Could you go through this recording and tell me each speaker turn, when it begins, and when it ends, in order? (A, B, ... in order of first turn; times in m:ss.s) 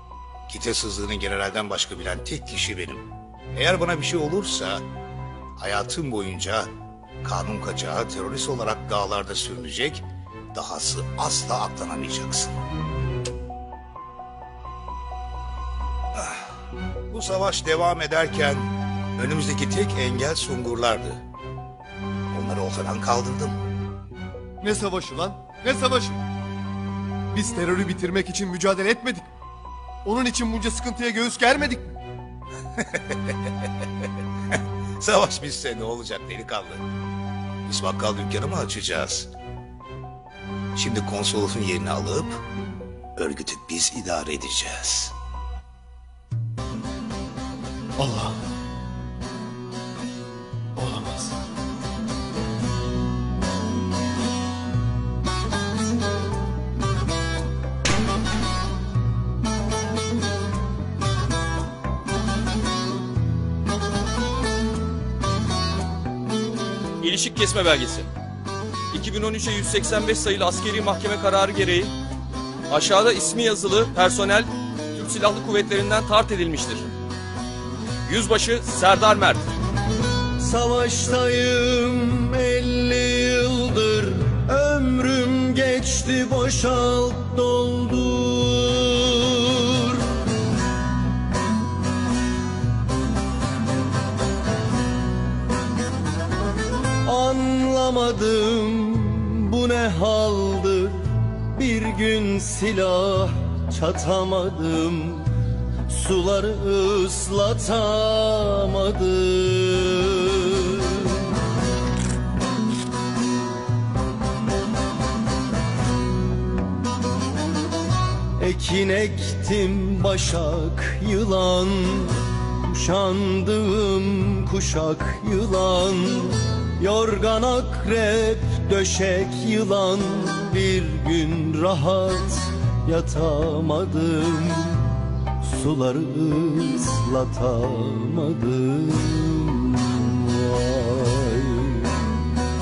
0:00.5-0:04.8 A
0:05.6-0:06.7 A
0:07.2-0:12.5 A
0:16.1-0:16.4 A
0:17.1-0:18.7 A
0:19.2-0:21.2 A
0:22.3-0:23.6 A
0:24.6-0:26.2 B
0:27.3-0:29.3 B
0:30.0-0:31.9 B
0:32.8-0:33.7 A
0:35.0-0:36.8 A
0:37.7-0:39.3 A
0:40.7-0:42.4 A
0:43.2-0:45.1 A
0:48.0-0:48.4 B
0:50.8-0:51.4 B
1:07.0-1:08.1 C
1:08.9-1:11.9 C
1:12.7-1:16.9 C
1:18.0-1:19.5 C
1:20.4-1:30.0 D
1:37.0-1:45.3 D
1:45.9-1:51.1 D
1:58.4-2:22.0 D